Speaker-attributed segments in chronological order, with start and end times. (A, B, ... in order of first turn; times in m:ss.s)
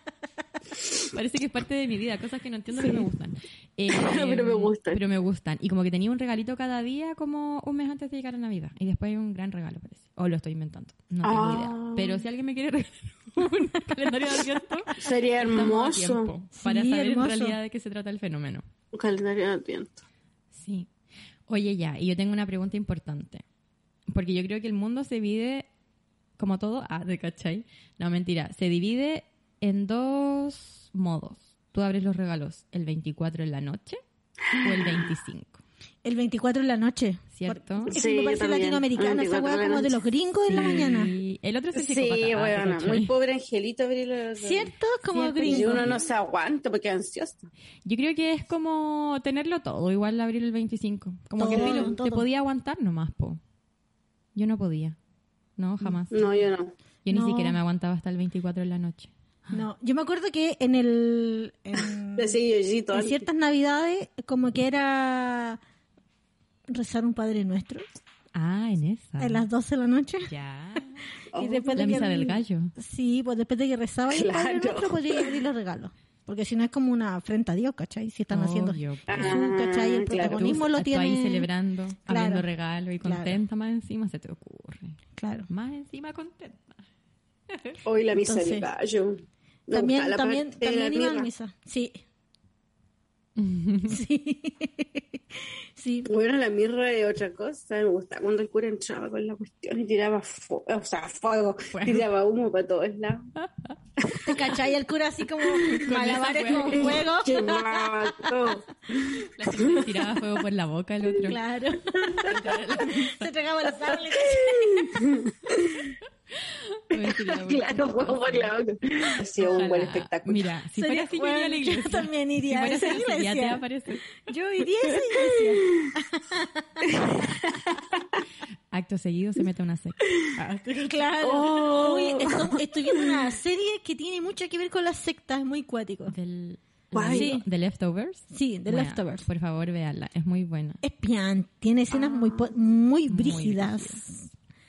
0:01.0-0:18.6 A
0:03.9-0:05.0 B
0:11.2-0:12.2 B
0:15.0-0:16.3 B
0:16.5-0:17.6 C
0:18.9-0:20.0 B
0:20.5-0:20.9 A
0:21.5-0:23.4 A
0:24.1-0:25.7 A
0:26.4-0:34.0 A
0:34.5-0:35.1 B
0:34.5-0:35.6 A
0:36.0-0:41.1 C
0:37.3-0:37.9 A
0:37.9-0:40.0 B
0:40.5-0:43.1 A
0:41.7-0:44.7 B
0:44.4-0:45.9 C
0:45.1-0:46.0 A
0:45.4-0:47.5 B
0:47.8-0:53.4 A
0:51.4-0:52.2 C
0:51.5-0:51.9 B
0:54.3-0:55.0 A
0:55.6-0:56.3 A
0:56.1-0:56.7 B
0:57.0-0:59.6 A
0:57.1-0:57.6 C
0:59.5-1:02.4 C
1:02.2-1:03.2 B
1:02.9-1:05.6 C
1:06.7-1:07.8 C
1:08.3-1:09.4 A
1:09.2-1:10.3 C
1:10.3-1:11.0 A
1:11.3-1:12.0 B
1:11.3-1:21.5 C
1:11.8-1:12.7 A
1:14.1-1:15.3 B
1:18.3-1:19.5 A
1:19.1-1:20.6 B
1:20.2-1:26.8 A
1:22.1-1:22.4 C
1:23.0-1:23.4 C
1:25.2-1:25.5 C
1:27.5-1:27.8 A
1:27.8-1:31.3 B
1:28.2-1:28.7 C
1:29.7-1:32.0 C
1:33.4-1:34.0 A
1:33.9-1:36.1 C
1:36.1-1:43.3 B
1:41.7-1:42.0 A
1:44.0-1:44.6 B
1:44.2-1:48.3 C
1:45.6-1:47.1 A
1:46.6-1:49.9 B
1:49.2-1:51.4 A
1:51.2-1:55.0 C
1:52.0-1:52.5 B
1:52.2-1:53.3 A
1:53.9-1:56.0 B
1:56.4-1:58.5 A
1:56.9-2:00.5 B
1:59.4-2:04.1 A
2:00.7-2:07.2 C
2:04.9-2:05.9 B
2:06.8-2:08.2 B
2:08.7-2:10.9 A
2:10.5-2:16.1 C
2:11.2-2:13.3 B
2:16.1-2:20.8 A
2:16.9-2:17.3 B
2:17.1-2:17.4 C
2:18.3-2:19.2 C
2:20.8-2:24.3 C
2:21.9-2:22.5 B
2:23.1-2:24.0 A